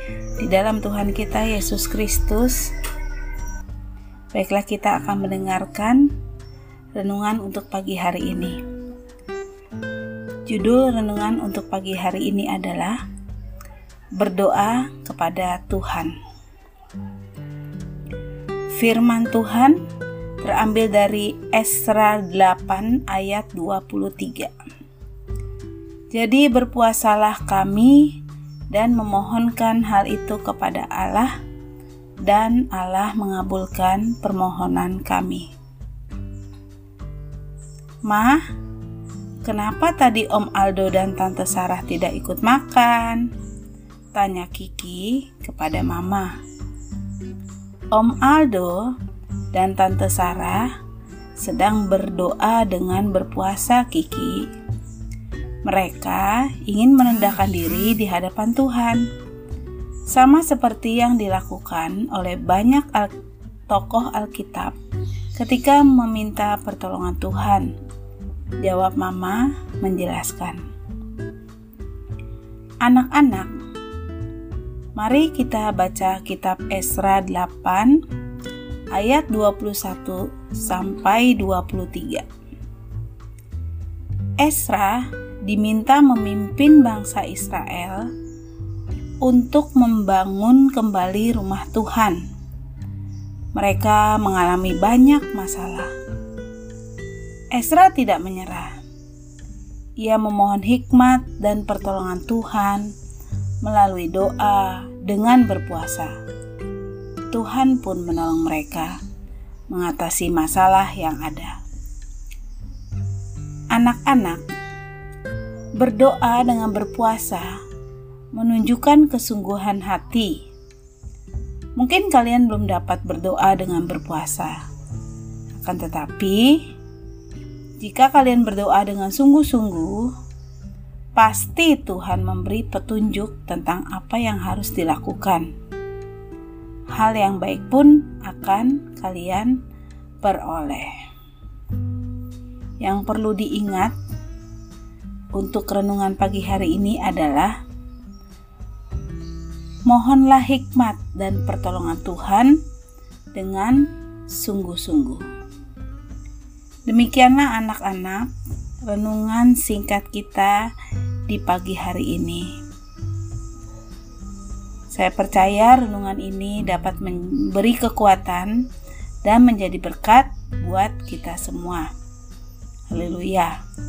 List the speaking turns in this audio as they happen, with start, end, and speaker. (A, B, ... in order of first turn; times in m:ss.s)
0:00.4-0:02.7 A
0:04.3-0:06.1 A
0:07.0-0:08.6 A
0:10.5-0:13.0 A
0:14.2-0:16.2 A
0:18.8-0:19.8 A
0:20.4-0:24.5 A
0:26.1-0:28.2 A
0:28.7-0:31.3 A
0:32.2-0:35.5 A
0:38.1-0:38.4 A
0:39.4-0:43.3 A
0:44.1-0:46.3 A
0:47.9-0:49.0 A
0:49.5-0:50.7 A
0:51.4-0:54.5 A
0:55.6-0:59.0 A
1:00.1-1:03.1 A
1:03.7-1:04.8 A
1:05.4-1:07.7 A
1:08.6-1:10.6 A
1:12.8-1:13.5 A
1:15.0-1:18.0 A
1:18.9-1:22.3 A
1:24.4-1:28.1 A
1:29.2-1:32.2 A
1:33.6-1:35.9 A
1:37.5-1:38.8 A
1:40.0-1:42.9 A
1:43.6-1:46.2 A
1:47.3-1:49.0 A
1:49.7-1:51.6 A
1:53.7-1:54.5 A
1:55.8-1:57.6 A
1:58.3-2:00.4 A
2:01.8-2:04.6 A
2:05.6-2:06.6 A
2:07.8-2:10.1 A
2:11.2-2:15.5 A
2:16.9-2:19.6 A
2:20.2-2:20.9 A
2:22.8-2:24.0 A
2:25.3-2:27.6 A
2:29.8-2:32.6 A
2:33.4-2:35.2 A
2:36.9-2:38.3 A
2:38.9-2:40.7 A
2:41.3-2:42.5 A
2:44.9-2:48.6 A
2:49.2-2:51.9 A
2:52.9-2:53.6 A